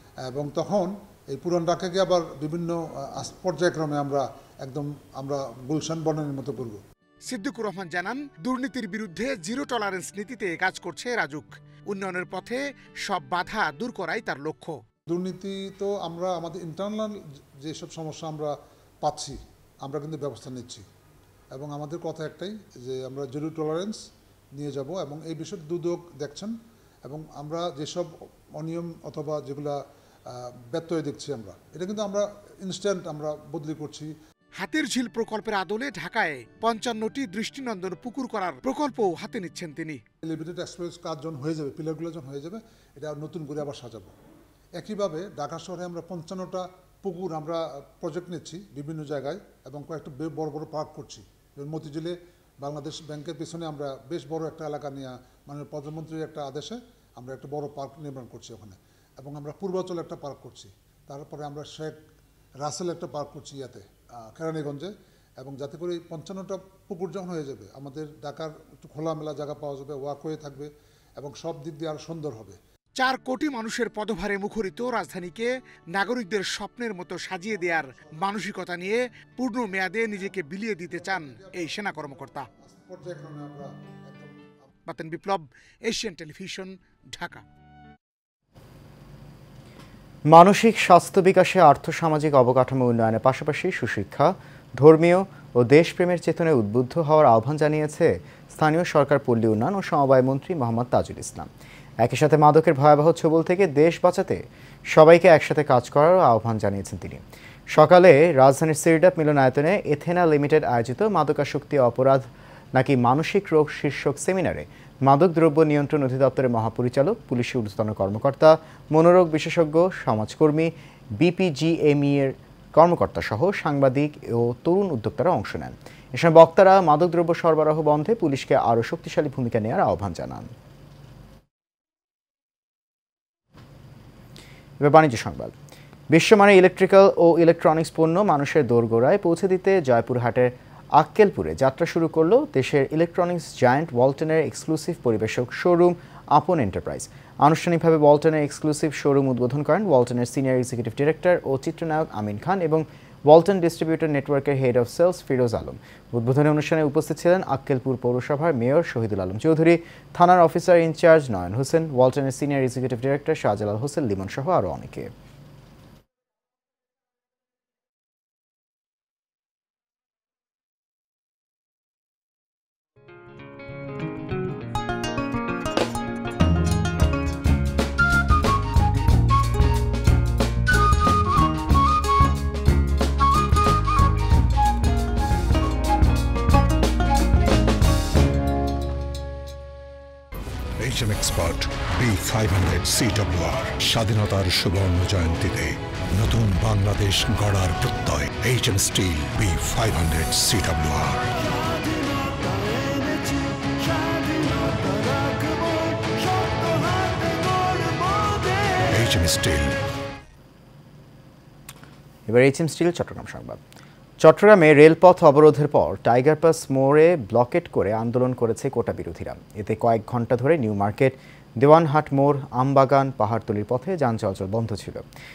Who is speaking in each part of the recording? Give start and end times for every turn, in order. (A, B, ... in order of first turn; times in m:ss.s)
0:00.3-0:06.8 A
0:07.3-0:14.8 B
0:15.1-0:20.8 A
0:21.5-0:24.0 A
0:24.5-0:26.5 A
0:27.0-0:34.1 A
0:34.6-0:40.0 B
0:40.2-0:44.1 A
0:44.8-1:02.0 A
1:02.6-1:12.6 A
1:13.0-1:22.4 B
1:20.9-1:24.5 A
1:24.9-1:27.4 B
1:30.3-1:41.5 C
1:42.0-2:10.5 C
2:14.8-2:15.5 C
2:16.1-2:45.1 C
3:10.8-3:21.2 D
3:28.9-3:29.8 D
3:32.3-3:33.6 C
3:34.2-3:45.0 C